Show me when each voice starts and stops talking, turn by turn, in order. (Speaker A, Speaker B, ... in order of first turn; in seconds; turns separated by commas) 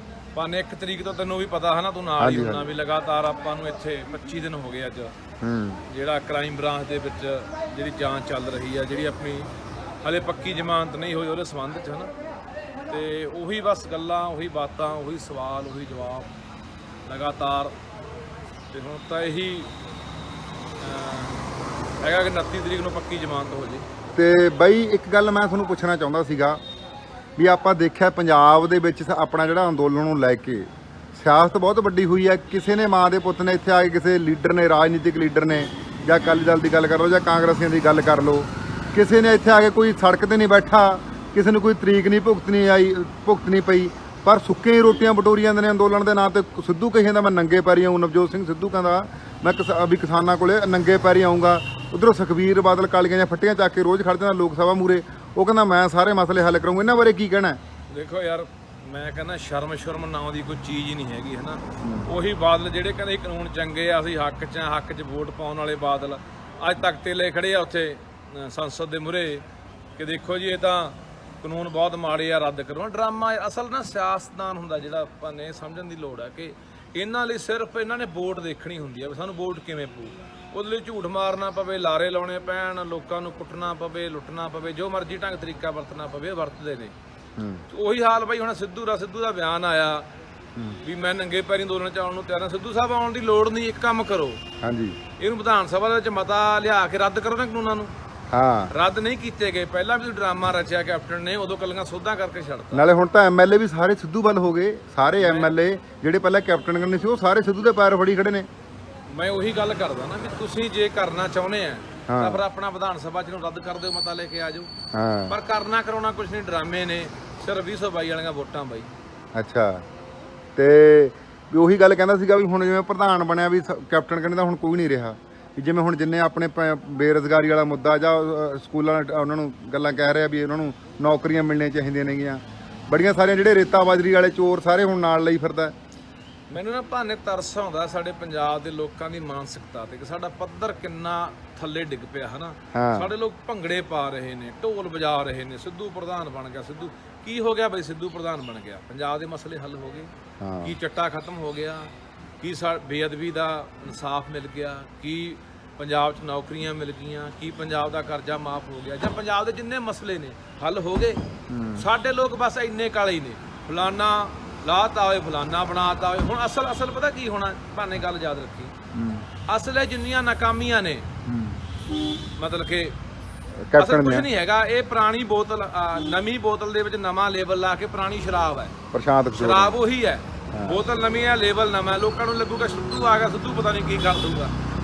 Speaker A: 0.3-5.1, Speaker B: 2.2-2.7, Speaker B: 5.4-5.8, Speaker A: 5.9-9.5, Speaker A: 10.0-12.1, Speaker A: 12.9-16.3, Speaker A: 17.1-17.8, Speaker A: 18.7-19.7, Speaker A: 20.8-21.4, Speaker A: 22.0-23.9, Speaker B: 24.1-26.6, Speaker B: 27.4-57.6, Speaker A: 57.9-69.5, Speaker B: 61.8-62.1, Speaker A: 70.0-87.0, Speaker B: 87.4-87.7, Speaker A: 87.7-90.1, Speaker A: 90.8-94.4, Speaker B: 94.6-95.0, Speaker A: 95.2-97.9, Speaker B: 98.3-98.7, Speaker A: 98.7-102.9, Speaker B: 102.7-108.5, Speaker A: 105.2-105.6, Speaker A: 109.1-114.7, Speaker B: 112.1-112.4, Speaker B: 114.9-115.3, Speaker A: 115.3-118.9, Speaker B: 119.3-119.8, Speaker B: 120.6-135.7, Speaker A: 136.5-161.2, Speaker B: 142.7-143.1, Speaker B: 150.4-150.8, Speaker B: 161.5-161.9, Speaker A: 161.8-168.7, Speaker B: 168.9-169.2, Speaker A: 169.5-171.1, Speaker B: 171.3-171.6, Speaker A: 172.4-173.0, Speaker B: 173.7-174.3, Speaker A: 173.8-178.8, Speaker B: 178.9-179.8, Speaker A: 179.3-184.5, Speaker B: 180.5-180.8